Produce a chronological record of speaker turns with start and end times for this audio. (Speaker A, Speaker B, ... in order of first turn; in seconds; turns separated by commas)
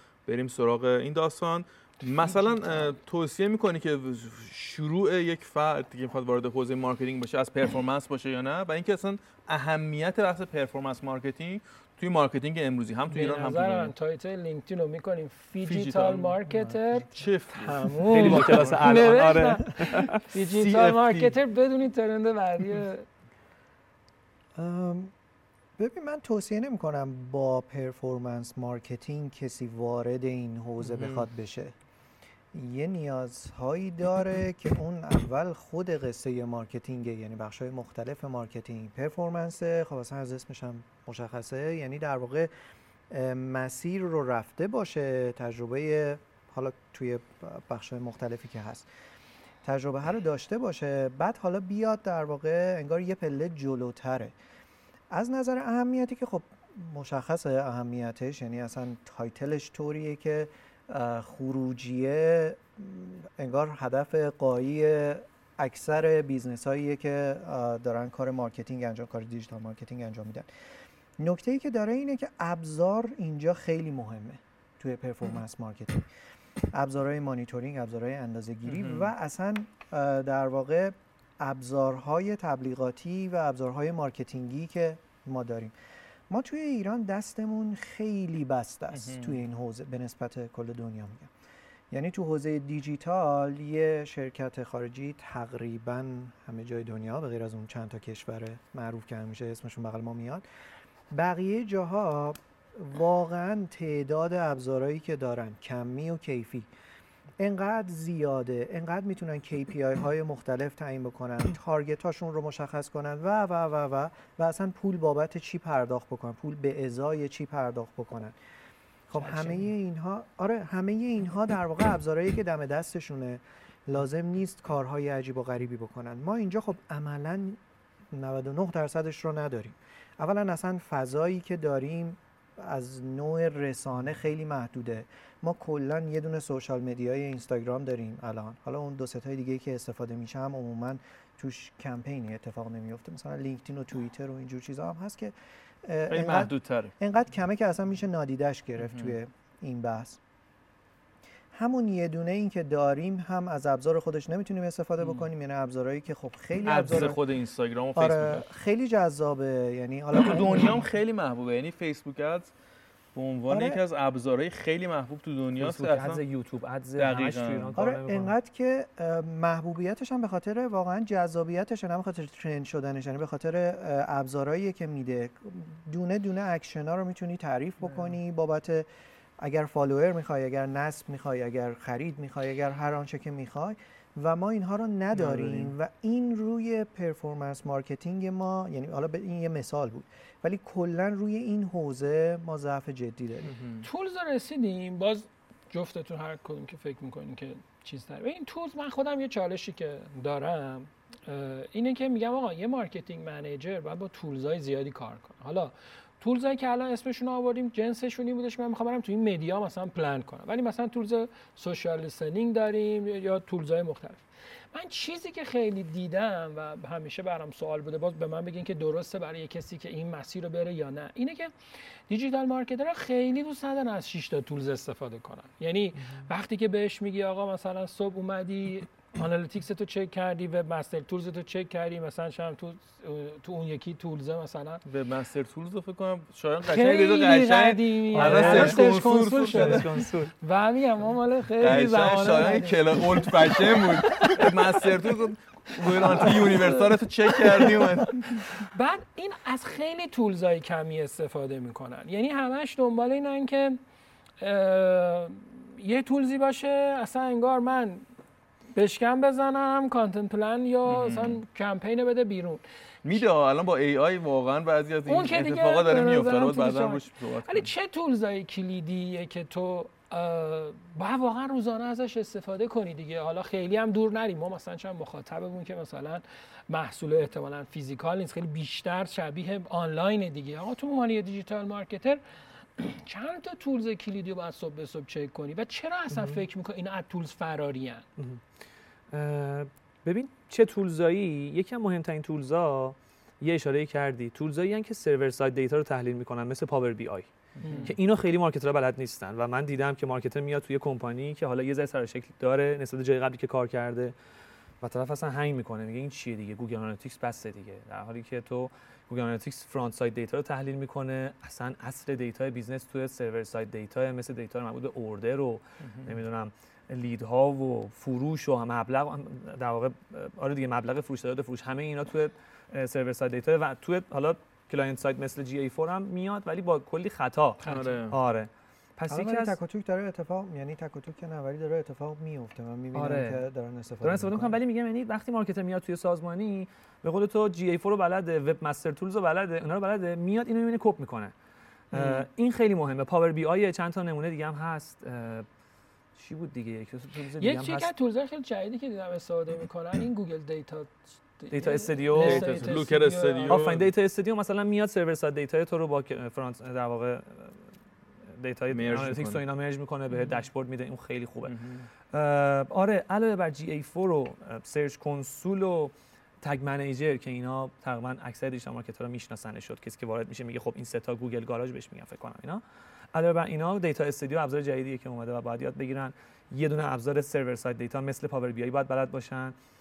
Speaker A: 0.2-13.9, Speaker B: 2.1-3.0, Speaker B: 13.1-17.1, Speaker A: 15.6-16.4, Speaker A: 17.1-19.1, Speaker C: 17.6-18.5, Speaker B: 17.8-23.1, Speaker D: 18.1-20.2, Speaker A: 20.4-21.3, Speaker C: 24.5-25.1, Speaker C: 25.8-31.7, Speaker A: 30.8-31.2, Speaker C: 32.5-42.5, Speaker C: 43.1-48.9, Speaker C: 49.6-54.3, Speaker C: 55.1-70.5, Speaker C: 71.2-76.0, Speaker C: 76.7-85.7, Speaker A: 78.7-79.1, Speaker C: 86.3-91.3, Speaker A: 88.9-89.4, Speaker C: 91.9-100.4, Speaker C: 101.1-106.7, Speaker C: 107.4-118.4, Speaker C: 119.1-127.6, Speaker B: 119.1-119.7, Speaker C: 128.1-150.2, Speaker A: 146.1-146.9, Speaker A: 148.8-149.1, Speaker C: 151.5-157.2, Speaker B: 155.0-155.2, Speaker A: 156.6-158.4, Speaker C: 157.9-160.8, Speaker A: 160.1-162.5, Speaker A: 163.1-166.2, Speaker C: 163.5-163.8, Speaker D: 165.6-168.3, Speaker A: 167.0-167.8, Speaker C: 167.8-178.9, Speaker C: 179.4-193.5, Speaker A: 185.1-185.7, Speaker A: 193.4-193.8, Speaker B: 193.8-214.2, Speaker B: 214.7-221.5, Speaker B: 222.1-234.8, Speaker A: 234.8-239.8, Speaker B: 236.6-244.8, Speaker D: 238.1-238.8, Speaker D: 239.5-240.3, Speaker A: 241.6-248.5, Speaker B: 245.8-253.8, Speaker B: 254.4-258.0, Speaker B: 258.7-262.6, Speaker A: 260.9-261.4, Speaker A: 263.0-267.7, Speaker B: 265.1-282.2, Speaker B: 282.8-288.0, Speaker D: 289.1-297.3, Speaker A: 297.6-297.9, Speaker B: 297.6-297.9, Speaker D: 297.8-304.1, Speaker D: 304.8-329.6, Speaker A: 315.8-316.1, Speaker B: 327.6-328.0, Speaker A: 327.6-328.1, Speaker C: 329.1-334.6, Speaker D: 332.9-333.4, Speaker D: 334.0-341.3, Speaker D: 341.9-345.4, Speaker B: 341.9-342.2, Speaker D: 346.1-347.9, Speaker B: 347.4-353.6, Speaker D: 351.5-352.8, Speaker A: 352.1-353.9, Speaker D: 353.5-357.6, Speaker D: 358.3-361.6, Speaker A: 358.7-359.4, Speaker B: 360.1-360.4, Speaker A: 361.4-361.9, Speaker D: 362.1-372.6, Speaker D: 373.1-379.5